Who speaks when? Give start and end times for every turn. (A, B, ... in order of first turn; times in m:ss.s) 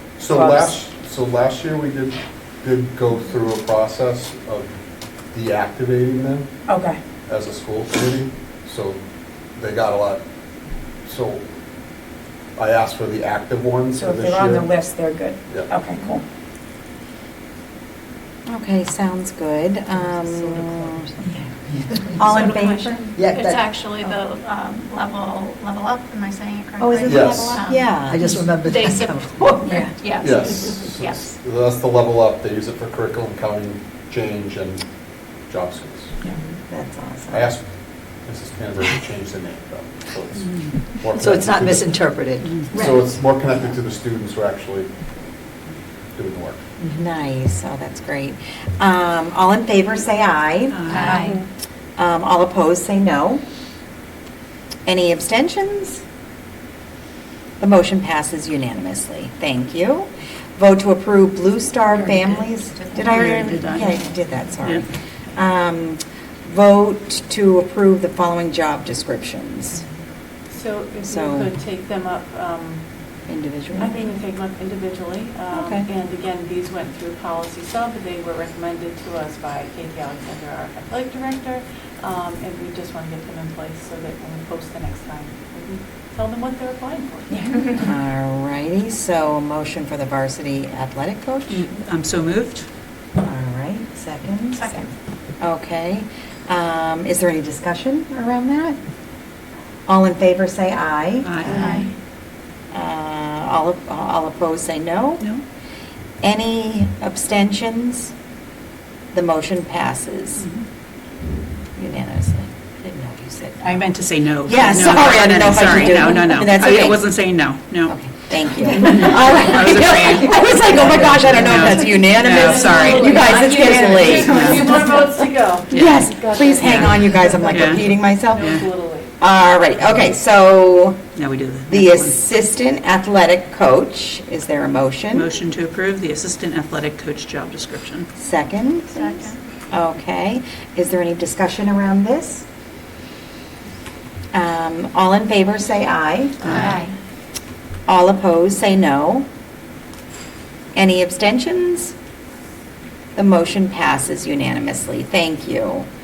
0:00.2-0:04.7 A
0:00.2-0:00.8 B
0:05.3-0:06.5 A
0:06.7-0:07.0 B
0:07.3-0:09.0 A
0:09.6-0:10.2 A
0:11.0-0:11.4 A
0:12.6-0:14.7 A
0:14.0-0:16.2 B
0:15.5-0:15.7 A
0:18.5-0:21.2 C
0:21.7-0:22.2 D
0:22.2-0:23.2 C
0:22.2-0:31.3 E
0:23.2-0:23.7 D
0:26.8-0:27.5 B
0:27.0-0:27.6 A
0:27.0-0:28.4 C
0:28.1-0:29.4 D
0:29.6-0:30.0 B
0:30.2-0:34.9 A
0:35.4-0:36.2 A
0:36.7-0:37.5 C
0:37.3-0:41.9 A
0:40.3-0:40.8 F
0:41.2-0:42.6 D
0:42.4-0:42.8 F
0:42.7-0:43.0 B
0:42.7-0:44.9 A
0:46.2-0:46.6 A
0:46.8-0:51.3 C
0:50.7-0:51.2 F
0:51.0-0:51.4 E
0:52.0-0:53.4 C
0:54.9-0:56.0 C
0:57.6-1:09.8 C
1:10.5-1:12.8 G
1:11.0-1:11.5 C
1:13.3-1:14.0 C
1:13.8-1:27.6 G
1:15.5-1:15.9 C
1:27.8-1:31.8 C
1:31.5-1:32.7 F
1:33.2-1:34.9 C
1:34.6-1:34.9 E
1:35.4-1:38.8 C
1:39.9-1:41.9 C
1:41.2-1:41.9 F
1:41.5-1:41.9 E
1:42.7-1:45.3 C
1:46.2-1:48.1 C
1:49.1-1:50.5 C
1:50.4-1:50.7 F
1:51.8-1:53.9 C
1:53.6-1:58.0 F
1:54.4-1:57.2 C
1:57.9-2:04.8 C
1:58.5-2:03.3 F
2:02.2-2:09.1 G
2:03.8-2:04.8 F
2:05.7-2:07.8 F
2:05.7-2:08.7 C
2:08.4-2:08.6 F
2:09.2-2:11.1 C
2:11.2-2:12.2 F
2:11.7-2:15.3 C
2:15.1-2:18.1 F
2:18.2-2:22.5 C
2:18.9-2:19.4 E
2:24.3-2:26.8 C
2:26.5-2:26.9 E
2:27.9-2:29.3 C
2:30.7-2:32.0 C
2:33.2-2:35.9 C